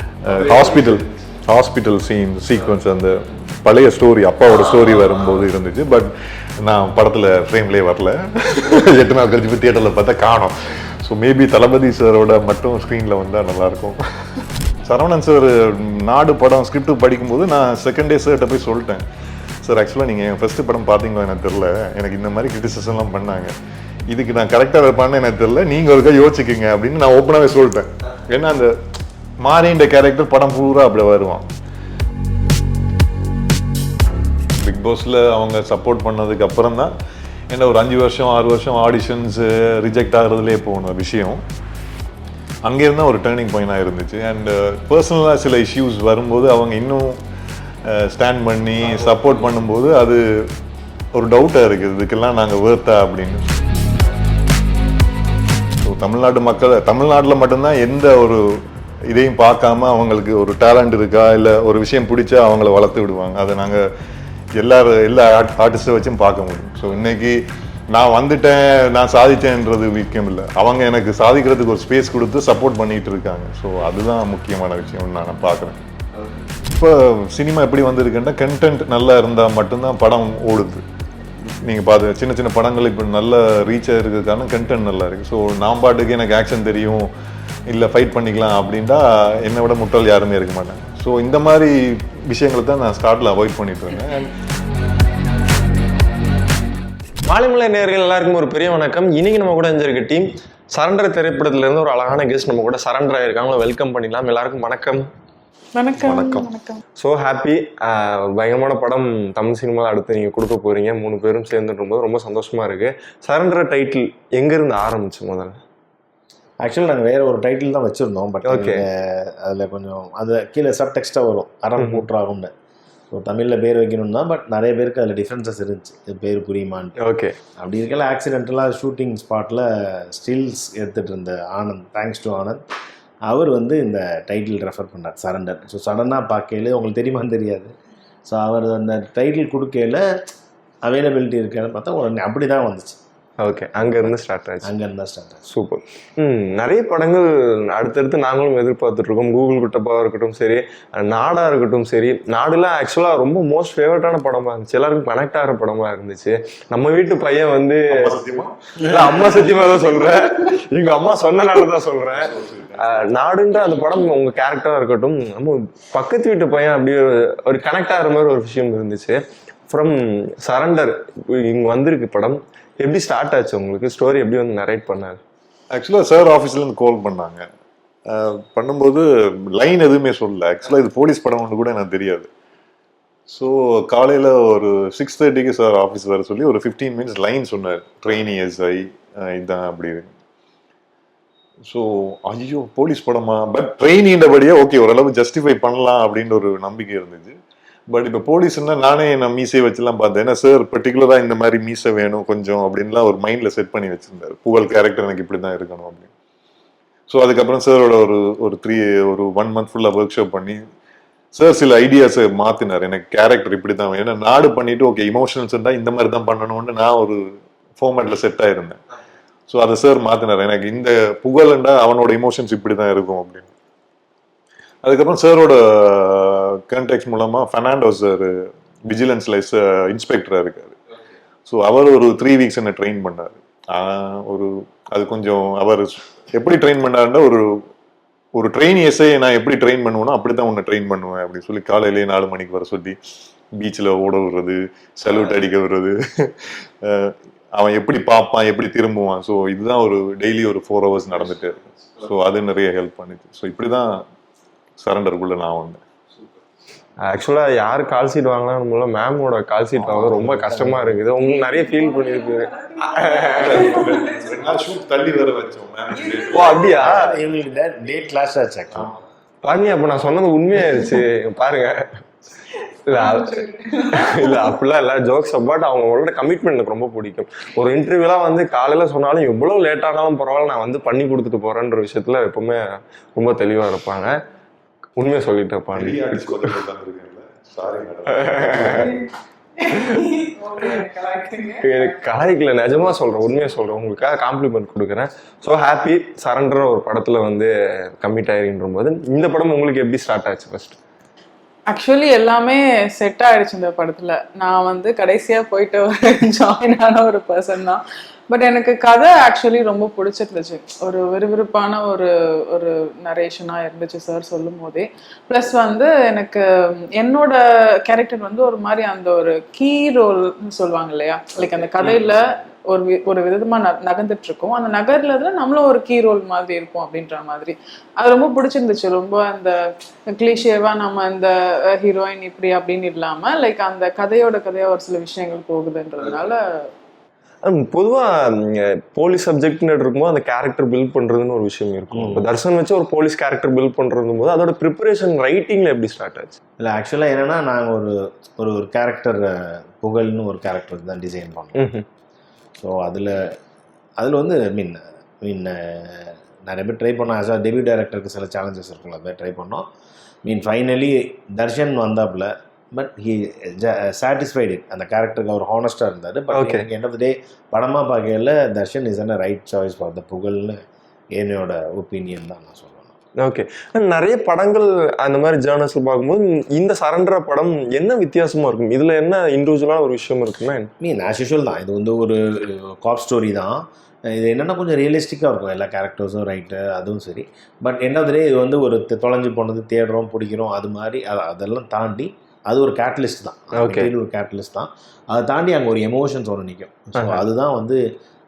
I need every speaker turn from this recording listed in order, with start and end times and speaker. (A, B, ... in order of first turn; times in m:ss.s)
0:00.2-0:14.0 A
0:00.3-0:01.2 B
0:14.8-0:19.0 A
0:19.6-0:23.5 A
0:24.1-0:28.7 A
0:29.4-0:31.5 A
0:34.6-0:36.9 A
0:37.5-0:41.4 A
0:42.7-0:47.2 A
0:47.9-0:50.2 A
0:51.2-0:53.4 A
0:55.8-0:58.4 A
0:59.1-1:03.8 A
1:04.6-1:07.4 A
1:07.9-1:15.9 A
1:16.6-1:20.8 A
1:21.6-1:27.1 A
1:27.7-1:34.3 A
1:37.2-1:45.0 B
1:45.8-1:46.8 C
1:46.0-1:46.5 A
1:47.0-1:55.6 B
1:56.6-2:02.5 D
1:58.4-1:58.8 B
2:01.8-2:02.1 B
2:03.1-2:07.0 D
2:07.0-2:07.4 B
2:07.6-2:12.6 D
2:13.3-2:17.7 D
2:18.3-2:20.0 D
2:20.8-2:23.0 D
2:23.4-2:24.7 B
2:24.6-2:25.4 D
2:25.5-2:38.2 B
2:37.9-2:39.9 A
2:38.8-2:49.2 B
2:42.1-2:43.1 A
2:49.7-2:55.2 B
2:55.7-2:57.4 A
2:58.1-3:02.3 A
3:03.3-3:10.1 A
3:11.7-3:17.4 A
3:17.9-3:26.1 A
3:27.1-3:30.6 A
3:31.3-3:37.2 A
3:37.8-3:38.8 A
3:39.5-3:43.5 A
3:44.8-3:48.3 A
3:48.9-3:50.8 A
3:51.5-3:57.5 A
3:58.4-4:03.0 A
4:03.6-4:14.0 A
4:14.8-4:15.8 A
4:17.1-4:23.9 B
4:19.8-4:20.4 A
4:19.9-4:21.0 D
4:21.2-4:24.8 C
4:23.4-4:26.6 A
4:25.9-4:27.1 C
4:26.3-4:27.1 B
4:26.8-4:29.0 D
4:29.4-4:32.0 B
4:32.5-4:34.5 C
4:32.9-4:42.6 B
4:43.2-4:44.1 B
4:45.0-4:46.6 B
4:45.7-4:48.9 A
4:48.1-4:48.9 B
4:48.7-4:52.0 C
4:49.7-4:50.0 B
4:51.6-5:00.8 B
5:01.7-5:29.6 C
5:30.1-5:36.4 C
5:37.4-5:46.4 B
5:41.9-5:42.3 D
5:46.6-5:51.6 D
5:51.6-5:51.8 B
5:52.6-5:53.3 D
5:54.0-5:59.7 D
6:00.2-6:10.6 D
6:06.3-6:06.7 B
6:11.2-6:13.0 D
6:13.2-6:20.7 B
6:20.8-6:37.8 D
6:33.6-6:33.9 B
6:37.0-6:37.2 B